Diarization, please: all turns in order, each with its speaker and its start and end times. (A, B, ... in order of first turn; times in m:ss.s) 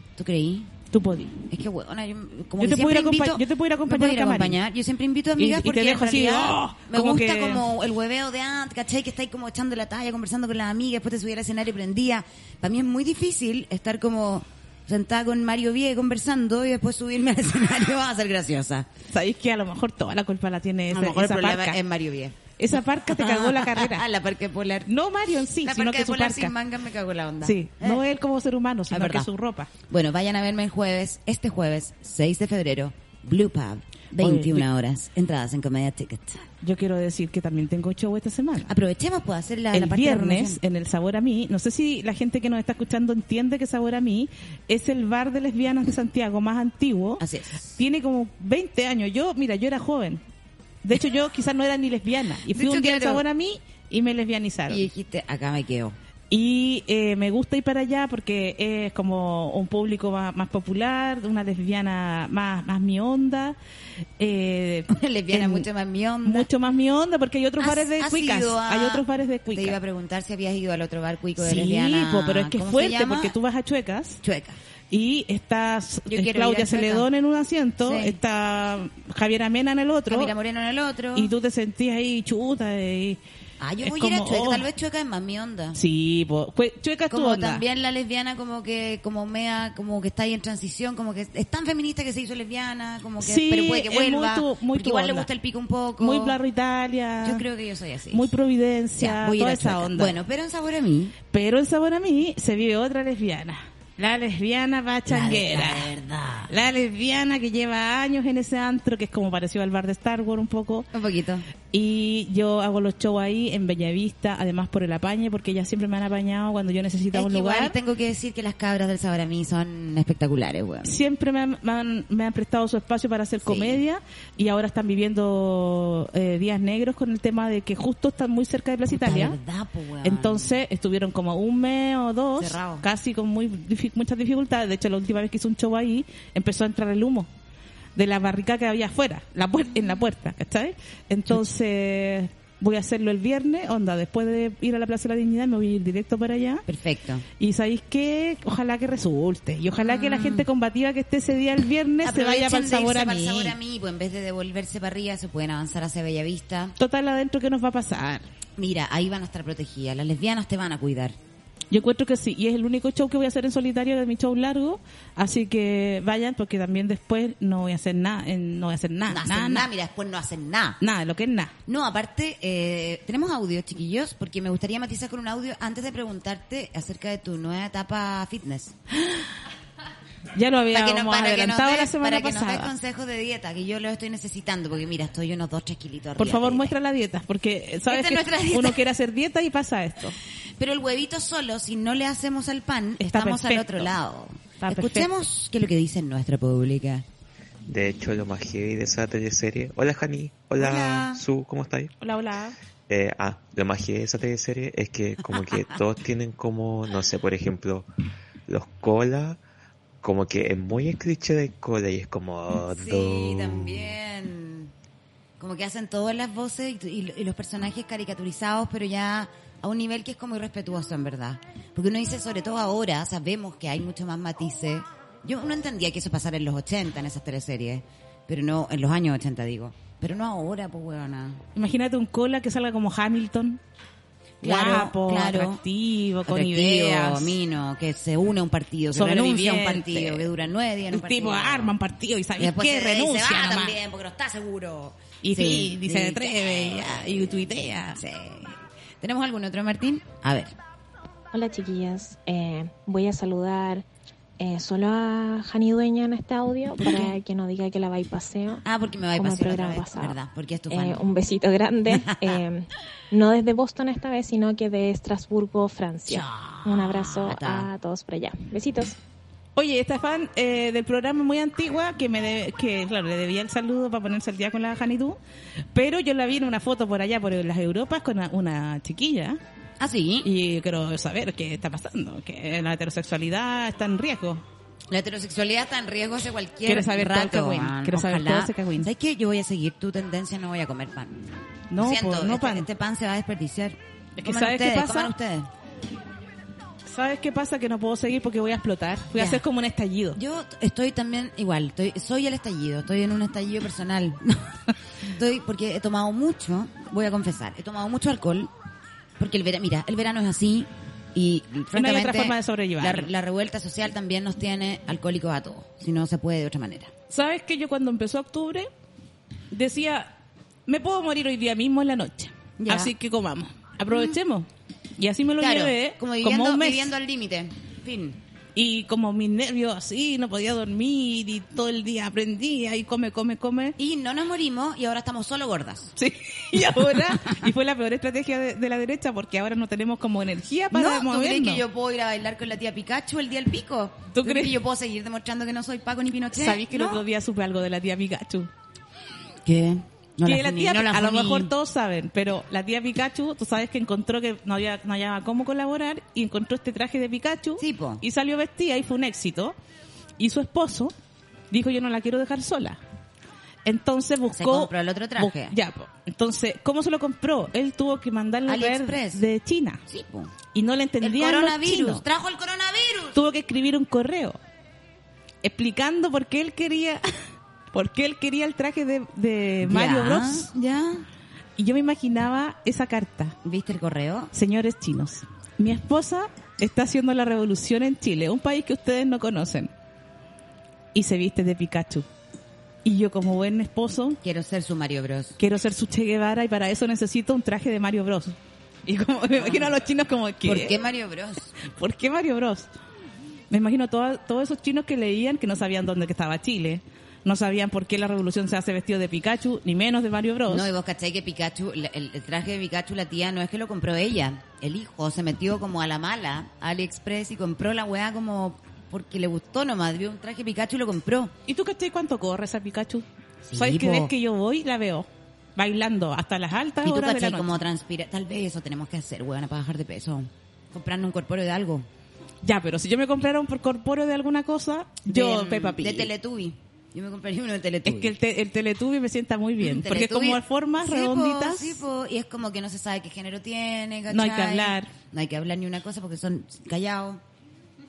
0:00.2-0:00.7 A
0:00.9-0:01.3 B
0:01.5-0:18.9 A
0:02.6-0:04.6 B
0:05.4-0:07.7 B
0:19.1-0:21.8 B
0:20.9-0:22.4 A
0:22.6-0:24.0 B
0:22.9-0:24.9 A
0:24.8-0:26.5 B
0:25.6-0:28.0 A
0:27.4-0:29.7 B
0:28.9-0:29.3 A
0:29.9-0:36.5 A
0:34.2-0:34.6 B
0:36.6-0:38.7 B
0:38.6-0:40.6 A
0:39.7-0:47.2 B
0:47.2-0:47.8 A
0:47.8-0:50.2 B
0:50.8-0:54.8 B
0:52.5-0:53.2 A
0:54.7-0:55.9 A
0:56.3-1:03.6 B
1:04.2-1:05.7 B
1:04.9-1:06.5 A
1:06.2-1:09.8 B
1:07.6-1:13.3 A
1:11.4-1:14.2 B
1:14.2-1:14.6 A
1:14.9-1:20.3 B
1:16.1-1:17.1 A
1:17.8-1:18.2 A
1:20.1-1:21.3 A
1:21.1-1:23.2 B
1:23.6-1:25.8 A
1:23.8-1:24.6 B
1:25.7-1:27.6 B
1:27.1-1:36.4 A
1:33.2-1:35.3 B
1:36.0-1:37.4 B
1:37.2-1:38.3 A
1:38.1-1:40.2 B
1:39.0-1:41.1 A
1:41.3-1:45.9 B
1:45.1-1:46.5 A
1:46.5-1:50.9 B
1:50.9-1:51.4 A
1:51.7-1:57.8 B
1:57.1-2:01.0 A
2:00.8-2:09.4 B
2:03.4-2:03.8 A
2:08.9-2:10.6 A
2:10.0-2:17.3 B
2:12.4-2:12.8 A
2:18.0-2:26.6 B
2:26.7-2:27.2 A
2:27.4-2:33.6 B
2:29.8-2:30.5 A
2:32.0-2:36.7 A
2:36.8-2:38.2 B
2:38.6-2:41.2 A
2:41.7-2:49.7 B
2:49.1-2:50.8 A
2:50.8-2:51.5 B
2:51.6-2:58.7 A
3:00.3-3:02.7 B
3:00.7-3:06.7 A
3:06.2-3:10.2 B
3:07.9-3:08.8 A
3:10.6-3:17.0 A
3:13.0-3:13.9 B
3:14.6-3:15.1 B
3:17.7-3:21.9 C
3:20.6-3:21.2 A
3:22.0-3:22.6 B
3:22.9-3:27.9 C
3:25.3-3:25.7 A
3:28.5-3:29.4 C
3:30.0-3:33.9 C
3:32.7-3:34.7 A
3:35.4-3:51.4 A
3:51.5-3:53.6 B
3:54.4-3:55.6 A
3:54.4-3:57.4 B
3:56.2-4:01.7 A
3:58.9-4:00.3 B
4:00.9-4:03.8 B
4:02.4-4:07.4 A
4:05.2-4:08.0 B
4:07.9-4:10.5 A
4:11.3-4:13.8 D
4:14.4-4:18.6 D
4:16.8-4:17.2 A
4:18.6-4:21.0 A
4:19.2-4:20.2 D
4:20.7-4:28.9 D
4:21.9-4:22.4 A
4:26.1-4:27.7 A
4:29.6-4:35.2 B
4:35.7-4:39.4 B
4:39.8-4:40.3 A
4:40.2-4:44.4 B
4:44.9-4:55.5 A
4:46.6-4:48.9 B
4:51.7-4:52.7 B
4:54.2-4:55.1 B
4:56.8-5:00.2 B
4:59.1-4:59.4 A
5:00.2-5:08.5 A
5:09.2-5:16.9 A
5:11.7-5:13.1 B
5:17.1-5:18.7 B
5:19.5-5:20.1 B
5:20.7-5:24.5 B
5:22.6-5:22.9 A
5:23.9-5:24.2 A
5:25.0-5:26.9 B
5:25.4-5:28.2 A
5:28.5-5:33.8 B
5:33.8-5:35.9 A
5:36.0-5:41.6 B
5:36.7-5:37.4 A
5:40.7-5:47.0 A
5:44.1-5:44.6 B
5:46.3-5:48.5 B
5:49.4-5:51.5 A
5:50.2-5:59.6 B
5:57.6-5:58.0 A
6:00.2-6:00.9 B
6:01.5-6:02.8 B
6:03.6-6:09.8 B
6:04.3-6:05.6 A
6:08.5-6:09.2 A
6:09.9-6:10.3 A
6:10.5-6:12.0 B
6:11.0-6:13.2 A
6:13.1-6:14.4 B
6:15.4-6:17.0 B
6:17.7-6:20.5 B
6:19.6-6:21.0 A
6:21.6-6:23.4 B
6:23.4-6:24.3 A
6:24.3-6:29.7 B
6:30.9-6:32.0 B
6:32.8-6:34.2 B
6:34.2-6:35.4 A
6:35.4-6:40.8 B
6:39.4-6:39.7 A
6:40.4-6:41.5 A
6:41.6-6:42.7 B
6:43.5-6:50.7 B
6:50.5-7:01.3 A
7:01.5-7:07.5 B
7:03.4-7:04.1 A
7:06.8-7:11.9 A
7:12.4-7:16.1 B
7:15.1-7:18.1 A
7:17.8-7:21.8 B
7:19.6-7:27.2 A
7:24.1-7:24.9 B